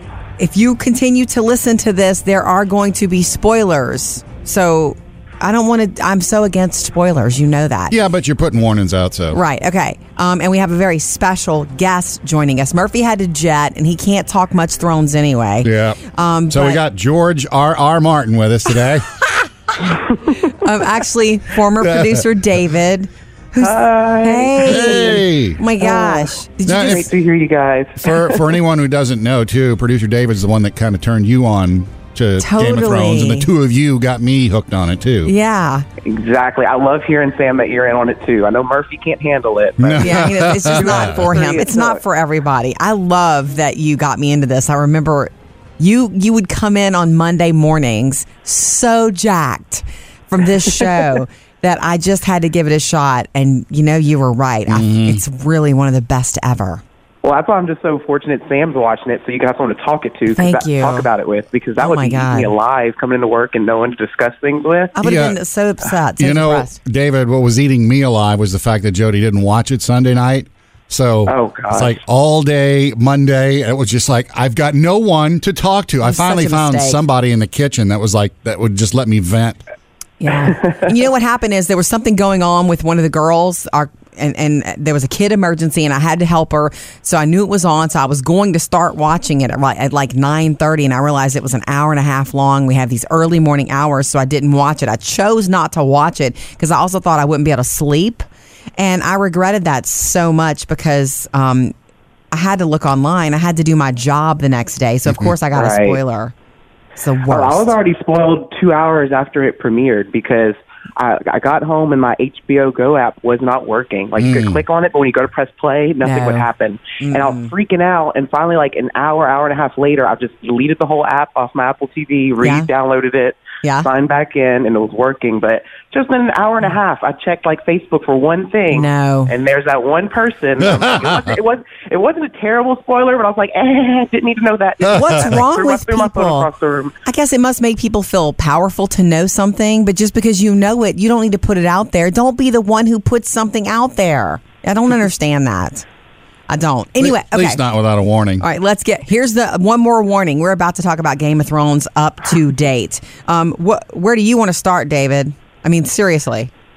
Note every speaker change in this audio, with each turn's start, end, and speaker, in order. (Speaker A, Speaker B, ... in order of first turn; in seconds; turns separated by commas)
Speaker A: 0.4-8.0, Speaker B: 7.9-9.4, Speaker A: 9.3-16.8, Speaker B: 15.6-16.0, Speaker B: 16.5-19.1, Speaker A: 20.4-27.1, Speaker B: 21.8-22.2, Speaker C: 23.6-24.8, Speaker B: 24.6-25.6, Speaker C: 25.8-28.6, Speaker B: 26.7-27.1, Speaker B: 28.0-35.3, Speaker A: 32.4-33.5, Speaker A: 35.2-35.9, Speaker C: 36.0-42.0, Speaker B: 39.8-41.3, Speaker A: 40.0-56.8, Speaker B: 54.7-55.2, Speaker C: 57.2-65.0, Speaker A: 60.3-61.1, Speaker A: 61.8-62.5, Speaker A: 65.0-66.8, Speaker B: 65.0-65.4, Speaker B: 66.2-79.6, Speaker C: 71.3-72.0, Speaker A: 76.0-77.0, Speaker A: 80.2-98.3, Speaker A: 98.8-101.7, Speaker A: 102.3-106.3, Speaker C: 105.5-106.0, Speaker A: 107.0-107.7, Speaker C: 107.3-136.9, Speaker B: 114.2-114.6, Speaker A: 116.0-116.5, Speaker A: 117.0-117.5, Speaker A: 122.4-122.7, Speaker A: 123.6-123.9, Speaker A: 128.7-129.3, Speaker B: 130.6-131.4, Speaker B: 134.8-135.3, Speaker A: 134.9-136.5, Speaker A: 137.1-145.8, Speaker A: 146.5-147.6, Speaker B: 147.0-148.4, Speaker A: 148.4-156.5